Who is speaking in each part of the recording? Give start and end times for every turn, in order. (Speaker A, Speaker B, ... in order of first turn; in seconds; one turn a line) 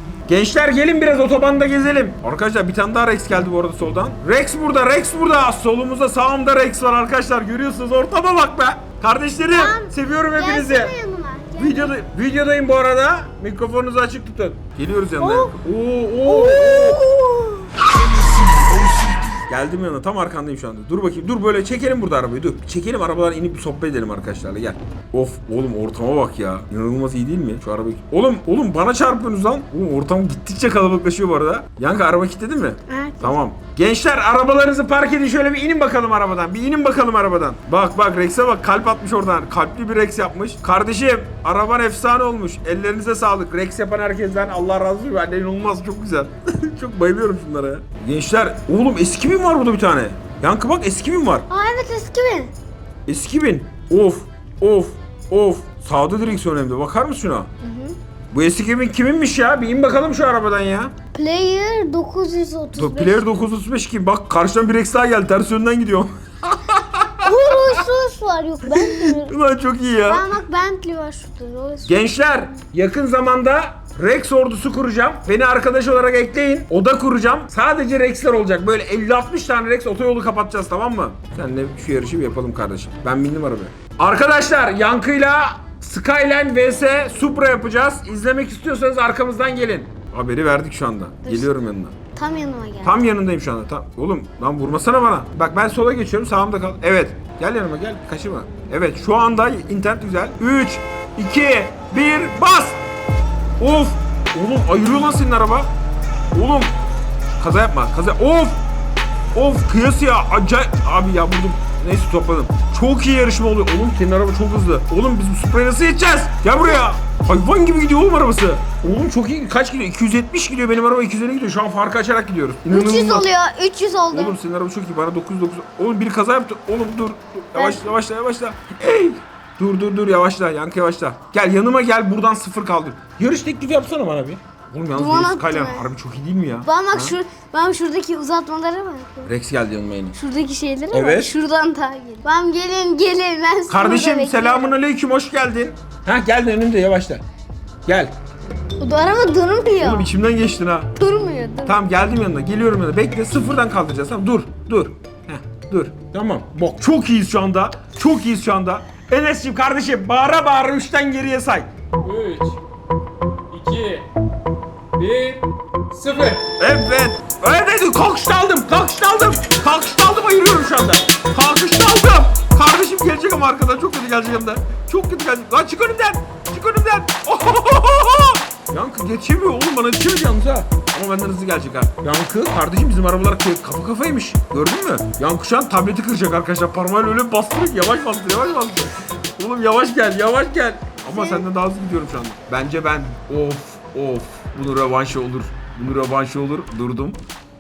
Speaker A: 0.3-10.9
Speaker B: 9.5-11.9
Speaker A: 11.6-17.5
Speaker B: 15.2-15.5
Speaker B: 16.3-17.3
Speaker A: 18.4-51.5
Speaker B: 32.9-33.4
Speaker B: 51.5-52.5
Speaker A: 53.1-57.5
Speaker B: 57.6-58.0
Speaker A: 58.3-61.0
Speaker B: 61.1-63.4
Speaker A: 62.8-67.8
Speaker B: 67.2-69.4
Speaker A: 68.7-70.3
Speaker B: 70.0-72.0
Speaker A: 71.9-92.0
Speaker B: 91.2-91.5
Speaker B: 92.2-93.1
Speaker A: 92.8-102.8
Speaker A: 103.6-105.7
Speaker A: 106.3-106.7
Speaker A: 107.4-108.6
Speaker A: 109.3-123.3
Speaker B: 116.6-116.8
Speaker B: 122.7-124.4
Speaker A: 124.1-137.2
Speaker B: 127.5-127.9
Speaker B: 134.9-135.9
Speaker B: 136.7-139.3
Speaker A: 139.3-140.2
Speaker B: 140.2-144.8
Speaker A: 140.9-141.3
Speaker A: 143.7-147.2
Speaker A: 147.9-148.1
Speaker B: 148.8-150.1
Speaker A: 149.8-150.9
Speaker B: 151.0-151.8
Speaker A: 151.7-161.7
Speaker C: 162.0-162.6
Speaker C: 163.5-164.1
Speaker C: 165.0-166.5
Speaker A: 166.6-197.2
Speaker B: 191.1-191.5